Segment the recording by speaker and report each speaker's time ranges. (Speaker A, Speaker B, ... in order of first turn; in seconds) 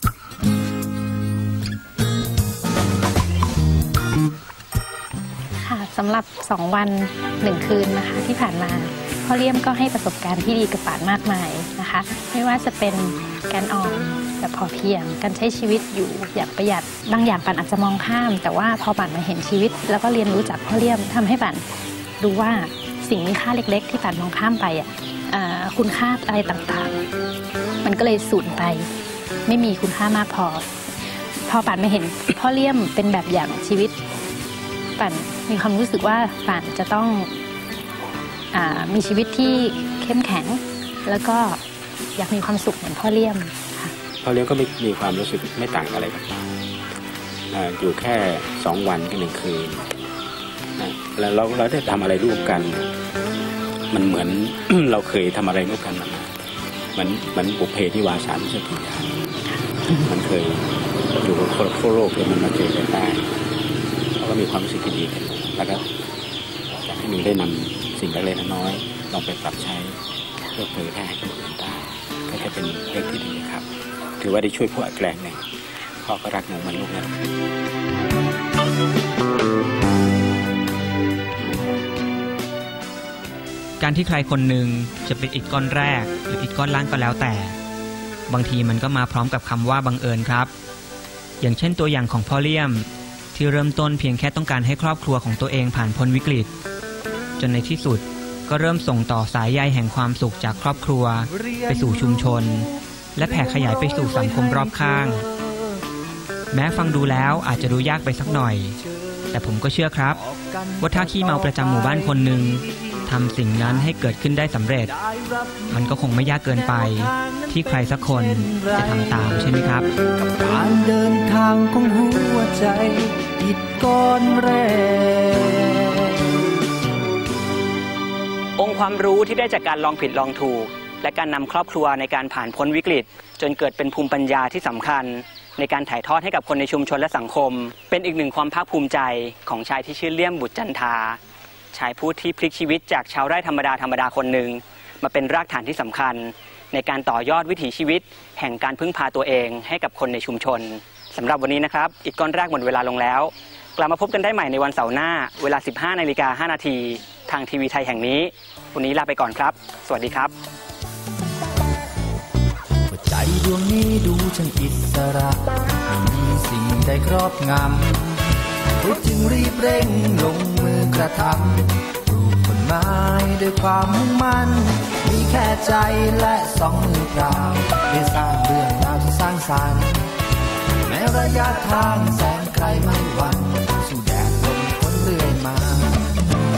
Speaker A: 5.6-21.6, 22.2-27.0, 27.8-28.9, 29.4-34.0, 35.0-37.4, 38.5-41.6, 42.1-43.9
Speaker B: 44.2-46.6, 47.5-49.9, 50.8-52.9, 53.9-56.3, 56.9-59.2, 59.9-63.4, 64.2-65.8, 66.8-70.0, 70.5-73.7, 74.2-77.1
Speaker C: 83.8-87.5, 88.3-90.5, 91.4-96.5, 97.4-105.2, 106.5-108.8, 109.3-110.2, 110.8-114.9, 115.7-119.9
Speaker D: 101.3-102.5, 103.2-105.8, 106.8-109.5, 110.1-114.1, 114.8-126.3, 162.9-168.2, 168.8-180.1, 180.8-186.0
Speaker E: 128.6-141.2, 141.7-160.3